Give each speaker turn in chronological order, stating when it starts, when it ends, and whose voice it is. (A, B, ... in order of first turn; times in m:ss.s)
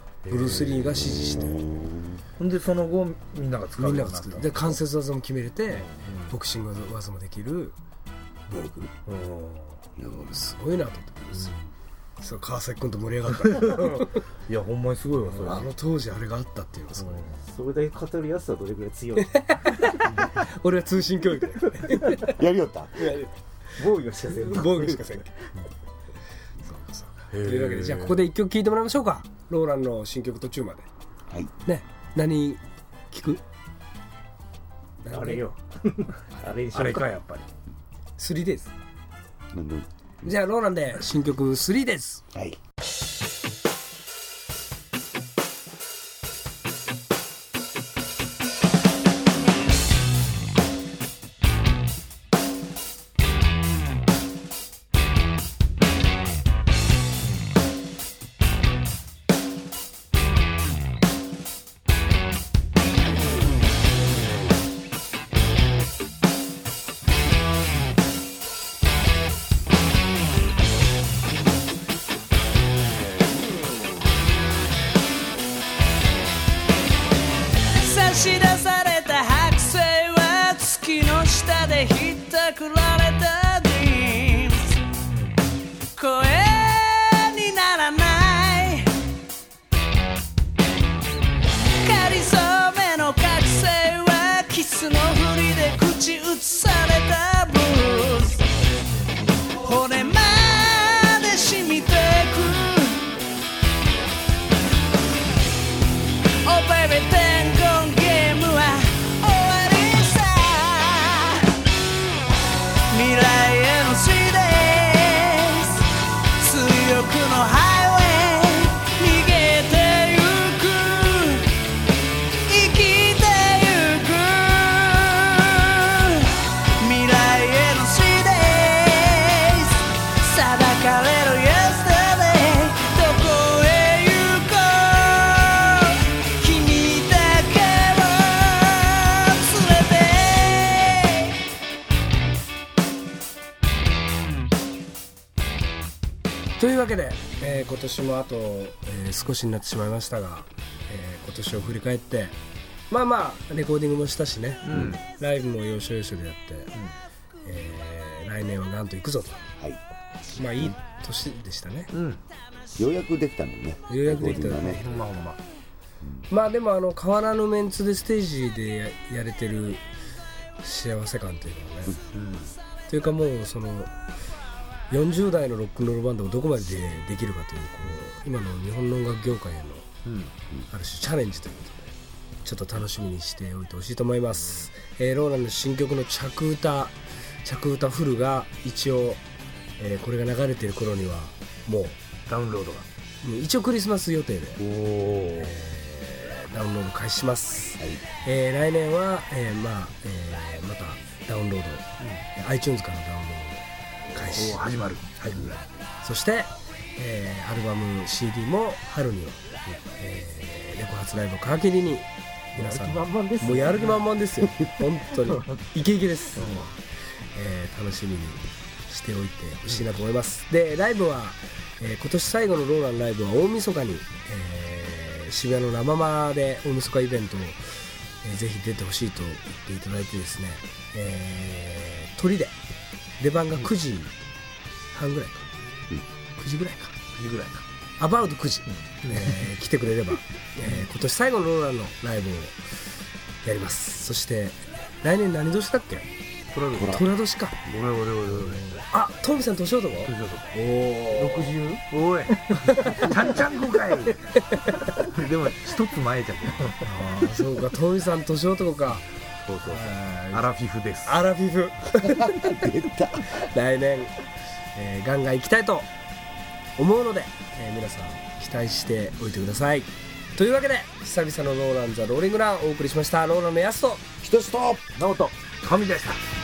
0:00.2-0:01.0 A
0:00.3-0:01.8 B
0:00.9-0:02.2 C
0:02.4-0:04.8 A
0:03.8-0:07.8 B
0:05.7-0:06.3 A
0:08.5-0:09.8 A
0:08.6-0:08.9 B
0:10.0-0:10.3 C
0:10.0-0:11.6 B
0:11.3-0:11.6 A
0:12.2-0:14.2 B
0:13.5-0:15.7 A
0:15.2-0:17.2 B
0:16.9-0:17.4 A
0:17.4-0:19.4 D
0:19.3-0:22.4 B
0:22.2-0:23.1 C
0:23.0-0:23.3 B
0:23.8-0:25.1 D
0:24.4-0:25.4 B
0:26.6-0:30.9 B
0:27.3-0:28.2 A
0:31.6-0:32.6 B
0:33.1-0:33.4 B
0:35.0-0:35.4 B
0:35.0-0:37.1 D
0:36.7-0:37.5 A
0:38.2-0:38.7 B
0:39.5-0:40.3 C
0:40.2-0:42.2 B
1:17.8-1:24.8 E
1:26.0-1:28.9 E
1:31.8-1:38.4 E
1:39.6-1:43.0 E
1:46.4-1:51.4 E
1:52.9-1:55.8 E
1:56.4-2:01.4 E
2:02.5-2:06.2 E
2:06.8-2:21.3 E
2:26.6-2:32.4 B
2:32.9-2:36.7 B
2:34.6-2:35.0 A
2:34.7-2:35.0 C
2:37.4-2:39.4 B
2:40.3-2:41.9 B
2:41.9-2:42.2 A
2:42.8-2:44.9 C
2:43.9-2:45.0 B
2:44.6-2:45.4 A
2:46.3-2:49.8 B
2:50.6-2:52.0 B
2:52.1-2:52.6 A
2:52.9-2:53.9 B
2:54.9-2:59.8 B
3:00.0-3:00.3 A
3:00.7-3:01.9 B
3:02.4-3:09.2 B
3:09.8-3:12.0 B
3:12.3-3:12.9 A
3:13.2-3:14.6 B
3:14.6-3:15.6 A
3:15.4-3:29.4 B
3:17.8-3:18.0 C
3:24.2-3:25.1 A
3:30.0-3:36.7 B
3:32.5-3:34.1 D
3:35.1-3:35.7 D
3:36.3-3:36.6 D
3:36.3-3:36.7 A
3:37.3-3:47.6 B
3:48.2-3:52.6 B
3:53.2-3:54.1 B
3:54.9-3:55.5 B
3:56.4-3:56.9 B
3:57.2-3:57.6 A
3:58.0-4:02.6 B
3:59.0-3:59.5 A
4:03.4-4:06.1 B
4:06.5-4:07.0 A
4:06.7-4:07.0 C
4:06.8-4:07.6 B
4:07.6-4:08.8 A
4:08.3-4:11.6 B
4:10.0-4:10.6 A
4:11.1-4:11.8 D
4:11.9-4:14.2 A
4:12.7-4:13.1 D
4:12.7-4:13.0 B
4:14.5-4:14.8 B
4:15.0-4:17.4 A
4:16.8-4:19.0 B
4:19.4-4:21.2 A
4:19.6-4:20.5 B
4:21.0-4:22.6 B
4:22.0-4:23.4 C
4:23.3-4:24.1 B
4:24.7-4:25.9 B
4:26.8-4:34.0 B
4:34.2-4:34.9 C
4:35.0-4:35.3 D
4:35.6-4:36.2 A